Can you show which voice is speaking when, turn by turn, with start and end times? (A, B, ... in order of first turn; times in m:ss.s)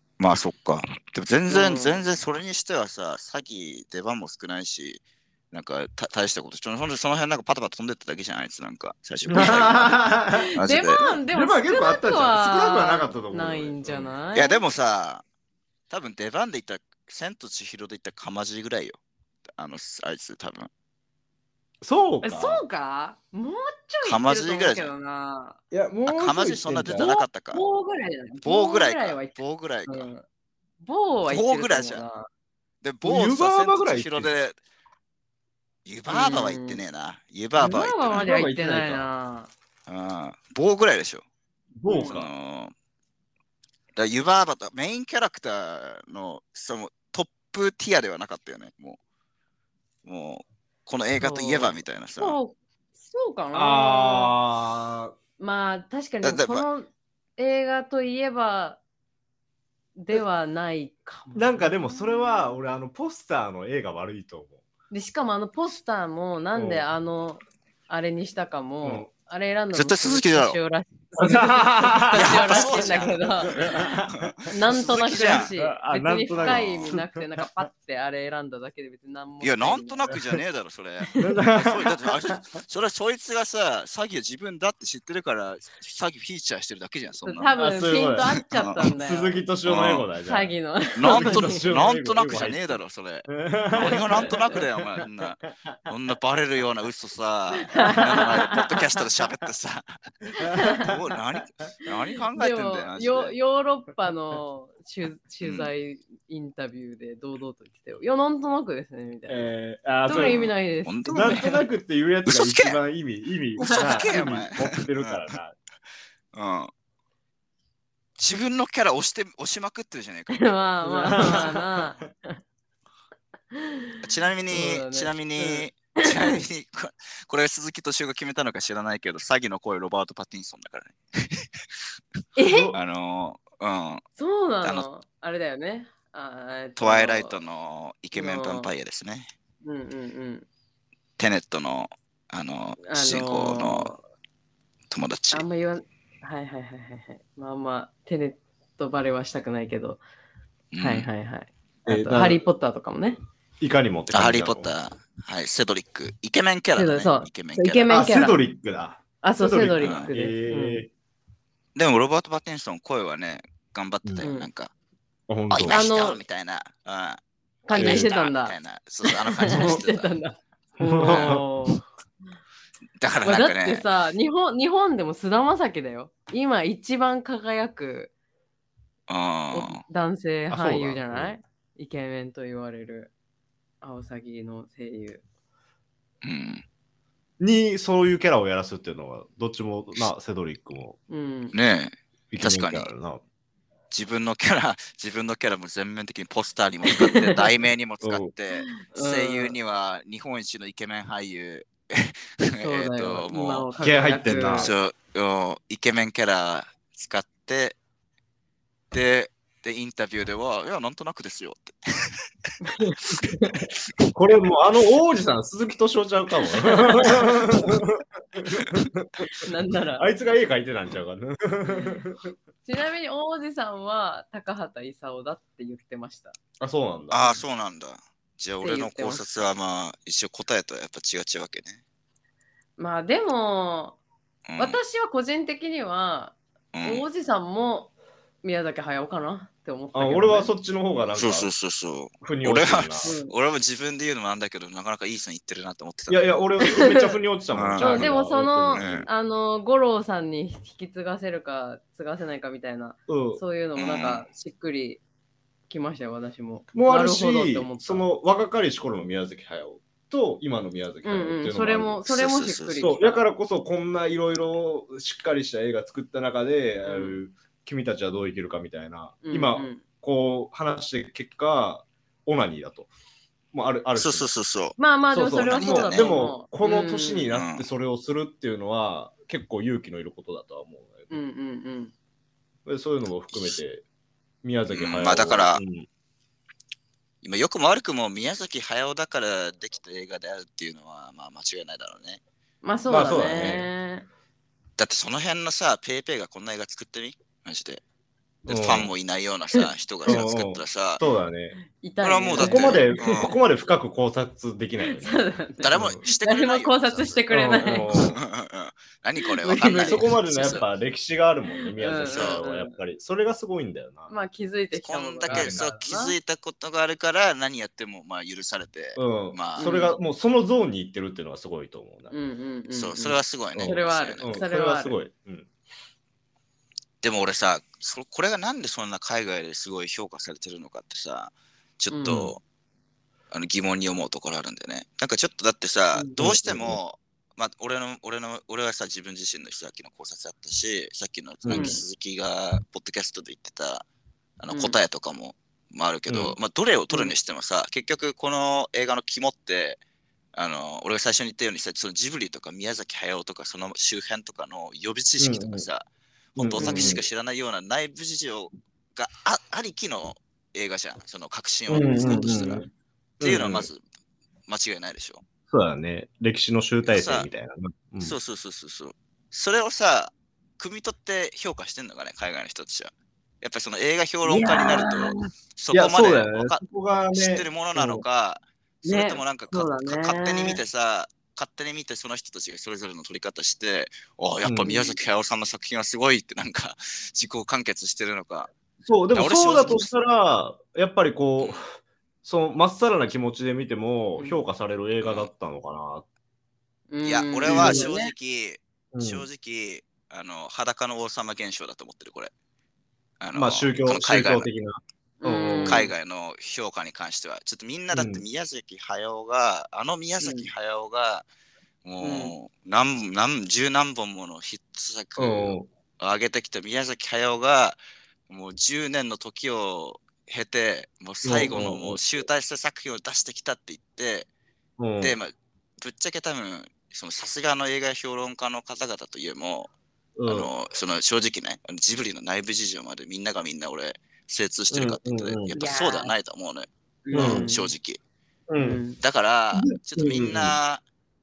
0:00.2-0:10.0 A
0:01.5-0:02.0 B
0:09.3-0:14.1 C
0:10.4-0:14.6 B
0:10.6-0:11.0 A
0:14.3-0:15.2 A
0:15.9-0:19.0 A
0:19.5-0:20.7 A
0:21.8-0:22.6 C
0:22.2-0:25.6 B
0:24.0-0:24.9 A
0:25.7-0:27.2 C
0:26.1-0:27.6 A
0:27.5-0:30.2 B
0:28.4-0:30.1 A
0:30.8-0:32.3 B
0:31.3-0:32.0 A
0:32.8-0:34.6 A
0:33.0-0:34.3 C
0:35.8-0:38.3 A
0:36.1-0:36.8 B
0:37.6-0:39.5 B
0:38.1-0:39.0 C
0:39.9-0:41.2 A
0:41.8-0:42.3 C
0:41.9-0:42.2 B
0:42.1-0:42.7 A
0:44.0-0:49.0 A
0:50.0-0:52.4 A
0:51.2-0:54.4 B
0:53.5-0:55.2 C
0:55.4-0:58.8 B
0:56.2-0:56.7 A
1:00.0-1:02.6 B
1:01.4-1:04.6 C
1:04.9-1:13.8 B
1:06.6-1:06.8 C
1:09.7-1:10.6 A
1:11.2-1:14.5 C
1:12.1-1:15.5 A
1:14.5-1:20.2 B
1:15.1-1:17.5 C
1:16.4-1:17.0 A
1:19.4-1:27.5 A
1:21.1-1:21.4 B
1:21.2-1:22.6 C
1:27.2-1:29.4 B
1:27.6-1:28.4 C
1:28.5-1:28.9 A
1:29.0-1:30.5 C
1:29.6-1:30.1 A
1:30.2-1:31.6 B
1:31.0-1:39.8 A
1:31.1-1:35.8 C
1:37.7-1:38.8 B
1:40.4-1:40.9 C
1:40.4-1:40.9 B
1:40.8-1:43.3 A
1:42.3-1:49.5 B
1:45.4-1:45.7 A
1:49.3-1:50.5 C
1:50.0-1:51.6 B
1:50.1-1:51.5 A
1:51.1-1:55.6 C
1:52.3-1:52.8 A
1:53.6-1:55.3 A
1:53.7-1:54.3 B
1:56.3-1:56.7 A
1:58.2-2:00.4 A
2:00.3-2:02.0 B
2:00.9-2:02.0 C
2:01.1-2:01.4 A
2:03.5-2:06.4 B
2:04.0-2:11.5 A
2:12.4-2:12.8 B
2:12.4-2:12.8 C
2:12.7-2:14.0 A
2:14.2-2:17.4 B
2:16.8-2:19.3 A
2:18.1-2:18.7 B
2:19.6-2:20.5 B
2:21.2-2:24.0 A
2:22.9-2:24.0 B
2:24.9-2:25.5 A
2:25.3-2:30.0 B
2:30.7-2:31.1 A
2:30.8-2:33.2 B
2:31.9-2:32.4 C
2:33.6-2:34.7 C
2:34.1-2:37.9 A
2:36.8-2:38.4 B
2:37.9-2:40.9 C
2:39.2-2:40.8 B
2:39.8-2:40.1 A
2:41.8-2:44.7 A
2:44.2-2:44.5 B
2:45.3-2:45.8 C
2:45.5-2:47.2 A
2:45.7-2:46.2 B
2:47.7-2:51.8 B
2:47.7-2:50.1 A
2:47.7-2:48.1 C
2:49.4-2:49.8 C
2:50.8-2:51.4 C
2:51.1-2:51.4 A
2:53.0-2:53.8 A
2:53.2-2:58.1 B
2:59.1-2:59.8 A
2:59.5-3:03.1 B
3:00.5-3:01.3 C
3:03.8-3:05.2 B
3:06.2-3:06.6 A
3:07.4-3:11.0 C
3:11.1-3:11.6 B
3:11.5-3:12.9 A
3:12.3-3:13.2 C
3:13.9-3:23.7 A
3:16.9-3:17.4 B
3:18.0-3:18.3 C
3:18.8-3:19.6 B
3:22.6-3:24.7 B
3:23.8-3:24.7 C
3:24.6-3:27.8 A
3:28.9-3:32.5 A
3:32.6-3:33.6 B
3:34.1-3:39.5 C
3:36.6-3:37.2 B
3:39.4-3:40.1 B
3:40.0-3:42.3 C
3:41.7-3:42.0 B
3:42.6-3:46.4 B
3:46.6-3:47.4 C
3:47.1-3:51.8 A
3:48.6-3:49.4 B
3:52.8-3:54.0 B
3:54.5-3:54.8 A
3:54.6-3:57.9 B
3:56.7-3:57.1 A
3:58.4-4:00.5 B
3:59.9-4:01.5 C
4:01.2-4:06.4 A
4:02.2-4:03.1 C
4:03.0-4:03.3 B
4:06.1-4:09.1 C
4:06.6-4:07.1 B
4:07.5-4:08.1 A
4:07.8-4:15.0 B
4:08.8-4:09.1 A
4:13.1-4:13.4 C
4:13.8-4:14.3 A
4:15.7-4:18.1 B
4:16.7-4:22.0 C
4:21.0-4:23.2 B
4:22.1-4:22.9 A
4:22.8-4:32.9 C
4:26.9-4:27.2 B
4:29.2-4:29.8 B
4:33.5-4:34.3 C
4:34.0-4:34.8 A
4:34.8-4:37.3 B
4:35.1-4:41.2 C
4:35.4-4:36.2 A
4:37.3-4:37.7 A
4:41.1-4:41.9 B
4:42.7-4:43.8 C
4:43.3-4:43.6 A
4:44.4-4:45.9 C
4:44.7-4:45.6 A
4:47.2-4:52.2 A
4:52.6-4:54.1 B
4:52.9-4:53.7 C
4:54.8-4:57.8 A
4:58.4-5:01.0 A
4:58.5-4:58.9 C
4:59.5-5:00.2 B
5:00.1-5:01.6 C
5:01.6-5:03.2 B
5:02.0-5:03.4 A
5:02.4-5:05.2 C
5:04.8-5:08.1 B
5:05.6-5:10.6 A
5:05.7-5:06.0 C
5:07.3-5:08.2 C
5:09.2-5:10.1 B
5:09.9-5:14.1 C
5:11.8-5:12.8 B
5:12.0-5:12.4 A
5:14.1-5:16.2 B
5:14.8-5:19.7 A
5:15.3-5:15.6 C
5:19.0-5:22.1 C
5:19.6-5:20.0 B
5:22.1-5:25.0 B
5:22.7-5:24.4 A
5:23.6-5:25.5 C
5:27.0-5:32.4 A
5:31.9-5:32.3 B
5:32.1-5:32.3 C
5:33.3-5:43.9 A
5:36.2-5:36.8 C
5:41.4-5:41.8 C
5:41.5-5:41.8 B
5:44.4-5:49.8 A
5:44.5-5:44.8 B
5:46.1-5:46.4 C
5:50.4-6:02.7 A
5:55.2-5:55.6 C
5:56.4-5:57.0 C
5:56.6-5:57.0 B
6:01.7-6:02.7 C
6:01.9-6:02.6 B
6:03.2-6:03.7 C
6:03.2-6:03.8 A
6:04.5-6:05.2 A
6:05.5-6:08.2 C
6:06.9-6:07.3 A
6:08.0-6:16.6 A
6:14.3-6:15.3 B
6:15.7-6:18.0 C
6:17.1-6:28.5 A
6:18.8-6:20.6 B
6:24.4-6:24.7 C
6:24.7-6:25.0 B
6:28.8-6:36.0 C
6:29.1-6:29.9 A
6:35.0-6:35.3 A
6:36.9-6:38.1 B
6:37.0-6:42.3 A
6:37.5-6:37.9 C
6:38.9-6:39.3 C
6:43.2-6:44.5 A
6:43.4-6:45.9 C
6:45.2-6:45.9 B
6:45.6-6:51.3 A
6:47.9-6:48.2 C
6:50.2-6:50.5 B
6:51.8-7:04.3 A
6:52.0-6:52.3 B
6:55.2-6:55.7 C
7:01.2-7:02.0 C
7:04.8-7:05.2 C
7:05.0-7:09.7 A
7:10.2-7:10.5 C
7:10.3-7:18.0 A
7:14.7-7:15.6 C
7:15.5-7:16.1 B
7:17.0-7:17.7 B
7:17.1-7:17.5 C
7:18.5-7:18.8 C
7:18.6-7:19.0 B
7:19.0-7:20.8 A
7:19.5-7:20.6 C